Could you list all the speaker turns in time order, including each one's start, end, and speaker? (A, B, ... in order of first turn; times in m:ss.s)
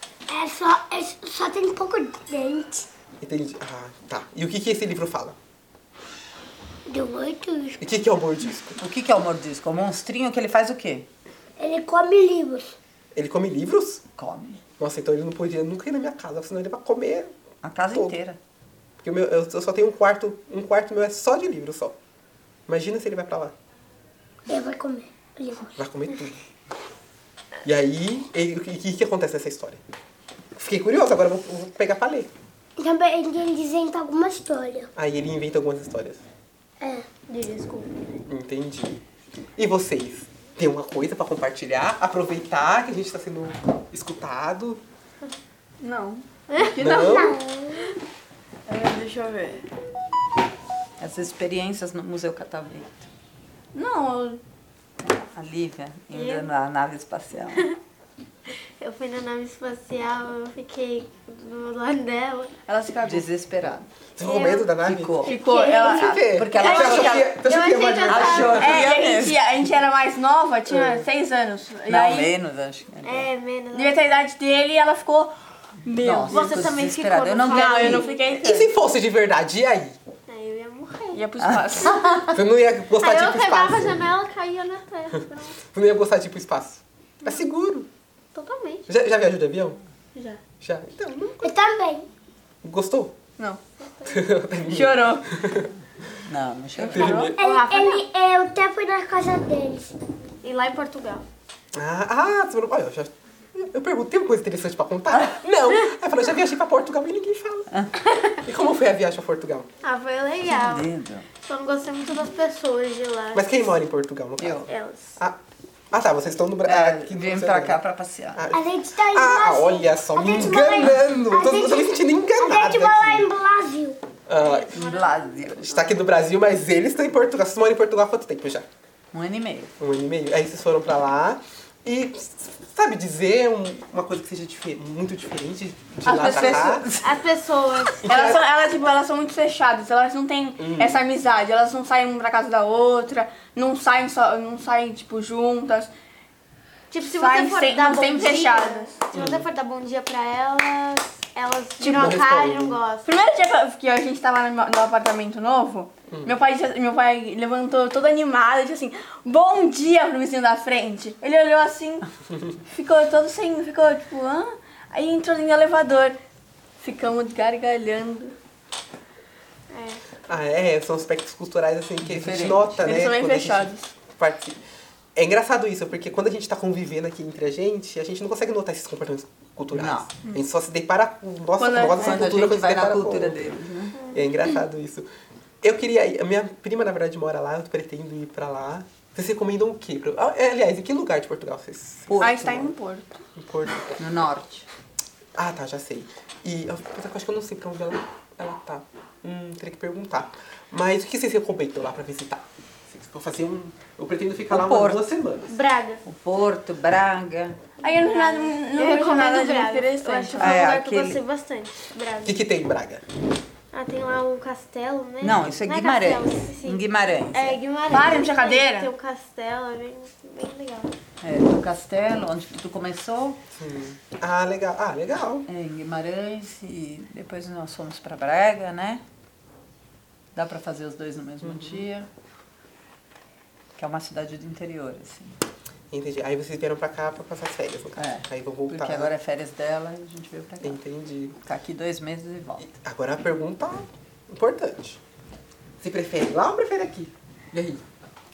0:00.3-0:02.9 A
0:03.2-0:05.4 B
0:06.9-0:07.8 A
0:07.8-0:08.8 B
0:08.8-0:11.1 C
0:11.6-0:12.7 A
0:13.2-0:14.0 B
0:14.2-0:14.6 C
0:14.8-0:17.3 B
0:17.6-0:18.4 C
0:17.9-0:18.2 B
0:19.0-0:22.0 B
0:22.7-0:23.5 B
0:24.5-0:25.7 A
0:25.8-0:26.4 B
0:27.6-0:29.8 B
0:30.6-0:32.3 B
0:32.8-0:34.9 A
0:35.0-0:36.2 B
0:36.8-0:37.1 A
0:37.3-0:37.9 D
0:38.3-0:39.0 B
0:39.6-0:44.8 B
0:45.8-0:47.4 E
0:46.5-0:47.9 D
0:46.8-0:47.4 B
0:46.9-0:47.9 A
0:48.7-0:49.6 E
0:51.0-0:53.1 C
0:53.7-0:54.4 E
0:55.0-0:57.7 C
0:56.1-0:56.5 D
0:58.5-1:02.6 D
1:02.7-1:03.3 E
1:03.0-1:03.9 C
1:04.2-1:05.3 B
1:04.2-1:04.7 D
1:04.8-1:05.4 C
1:05.2-1:07.3 E
1:05.4-1:06.1 A
1:05.9-1:08.7 B
1:06.2-1:07.2 C
1:06.6-1:09.0 D
1:08.1-1:09.4 C
1:08.5-1:12.3 E
1:10.7-1:11.0 B
1:11.9-1:13.3 C
1:13.0-1:14.1 D
1:13.7-1:16.5 E
1:16.0-1:18.1 C
1:16.2-1:18.4 D
1:17.5-1:18.7 E
1:18.3-1:20.0 B
1:20.3-1:21.2 D
1:21.1-1:22.1 E
1:21.4-1:22.4 C
1:22.3-1:24.1 B
1:23.0-1:25.6 D
1:25.7-1:27.9 B
1:28.4-1:28.8 D
1:28.9-1:29.8 B
1:30.2-1:30.4 D
1:30.6-1:31.5 B
1:31.4-1:32.1 A
1:32.6-1:33.1 B
1:33.8-1:34.3 D
1:34.1-1:35.7 B
1:34.6-1:35.3 E
1:36.3-1:37.2 C
1:36.8-1:37.3 E
1:36.9-1:37.4 B
1:37.4-1:39.9 A
1:37.4-1:38.0 D
1:40.4-1:41.2 D
1:41.8-1:47.7 B
1:48.4-1:49.7 B
1:49.8-1:50.9 D
1:50.5-1:51.3 C
1:51.4-1:53.7 D
1:53.3-1:55.4 B
1:54.4-1:54.7 C
1:54.7-1:55.2 D
1:55.9-1:57.8 B
1:56.6-1:58.4 C
1:58.4-2:03.3 B
1:58.5-2:04.0 A
2:04.3-2:04.8 B
2:04.4-2:05.5 D
2:04.7-2:06.0 C
2:05.6-2:08.7 B
2:09.1-2:09.7 C
2:09.8-2:16.9 B
2:16.0-2:17.2 C
2:16.1-2:18.2 D
2:18.0-2:18.4 B
2:18.1-2:25.9 E
2:20.6-2:21.0 B
2:26.9-2:33.1 D
2:27.1-2:28.9 E
2:29.1-2:29.4 B
2:31.8-2:32.2 E
2:32.0-2:32.8 B
2:33.0-2:42.1 E
2:36.1-2:36.4 B
2:42.7-2:46.2 E
2:46.8-2:48.4 E
2:49.7-2:50.0 D
2:50.3-2:54.6 B
2:52.0-2:52.8 C
2:52.8-2:53.9 E
2:55.2-3:03.4 B
2:59.7-3:00.1 C
3:01.6-3:02.3 E
3:02.0-3:04.0 C
3:04.0-3:04.2 D
3:04.1-3:05.1 B
3:05.6-3:12.1 B
3:12.1-3:12.7 C
3:12.2-3:13.2 E
3:13.4-3:13.8 B
3:14.0-3:14.7 C
3:15.4-3:25.5 B
3:24.5-3:25.1 C
3:25.5-3:26.0 D
3:26.1-3:27.6 C
3:27.8-3:30.8 E
3:27.8-3:32.4 D
3:30.4-3:31.2 C
3:32.2-3:33.0 B
3:33.7-3:40.9 D
3:35.2-3:38.1 C
3:37.9-3:38.9 E
3:41.2-3:43.4 C
3:43.6-3:45.5 B
3:45.5-3:49.0 C
3:50.4-3:52.1 C
3:51.4-3:51.8 B
3:53.8-3:55.4 C
3:55.9-3:59.1 B
3:58.0-4:00.8 C
4:00.6-4:01.4 B
4:01.4-4:02.7 C
4:02.6-4:05.0 B
4:05.8-4:07.8 B